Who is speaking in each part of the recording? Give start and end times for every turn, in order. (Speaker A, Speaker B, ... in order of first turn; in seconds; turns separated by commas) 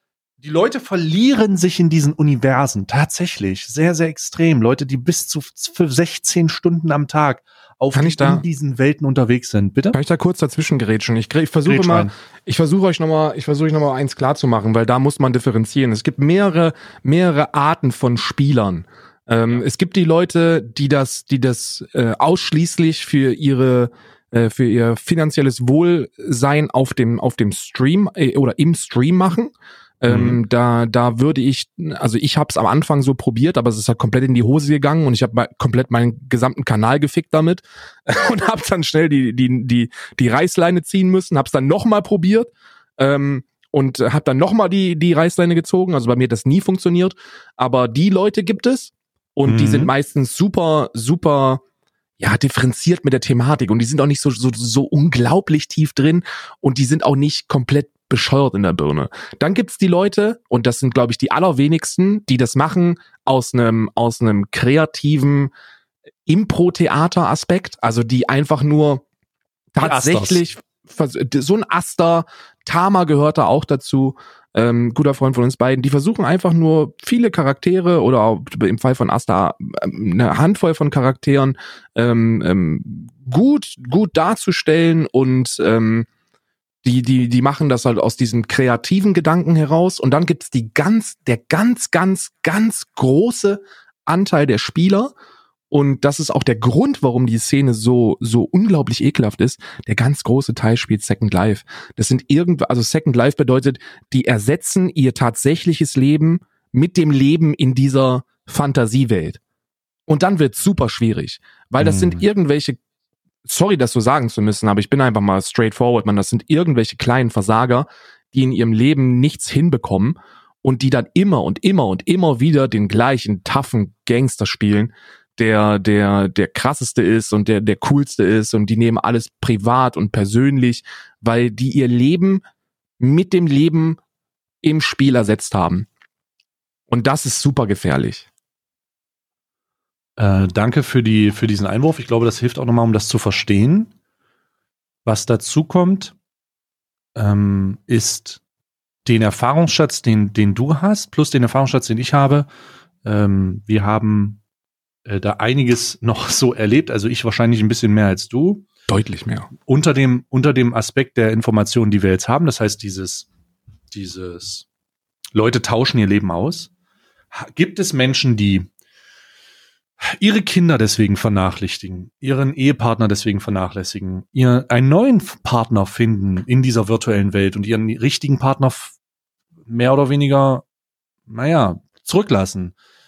Speaker A: 0.4-10.0, Speaker B: 7.9-8.4, Speaker B: 9.9-51.6, Speaker A: 11.6-12.1, Speaker A: 30.1-30.4, Speaker A: 49.5-49.9, Speaker B: 52.2-65.5, Speaker B: 66.3-69.0, Speaker B: 69.7-86.1, Speaker A: 69.8-70.4, Speaker B: 86.8-95.1, Speaker B: 95.7-109.4, Speaker B: 110.1-112.8, Speaker A: 111.8-112.2, Speaker B: 113.4-132.4, Speaker B: 133.0-134.0, Speaker B: 134.6-135.9, Speaker B: 136.9-138.3, Speaker A: 140.2-143.9, Speaker A: 145.0-146.1, Speaker A: 147.2-148.4, Speaker A: 149.0-152.5, Speaker A: 153.0-154.4, Speaker A: 155.1-158.6, Speaker B: 158.9-159.5, Speaker A: 159.7-163.3, Speaker A: 163.9-164.7, Speaker A: 165.3-166.7, Speaker A: 167.3-168.7, Speaker A: 170.0-178.9, Speaker A: 179.7-180.6, Speaker A: 181.3-182.7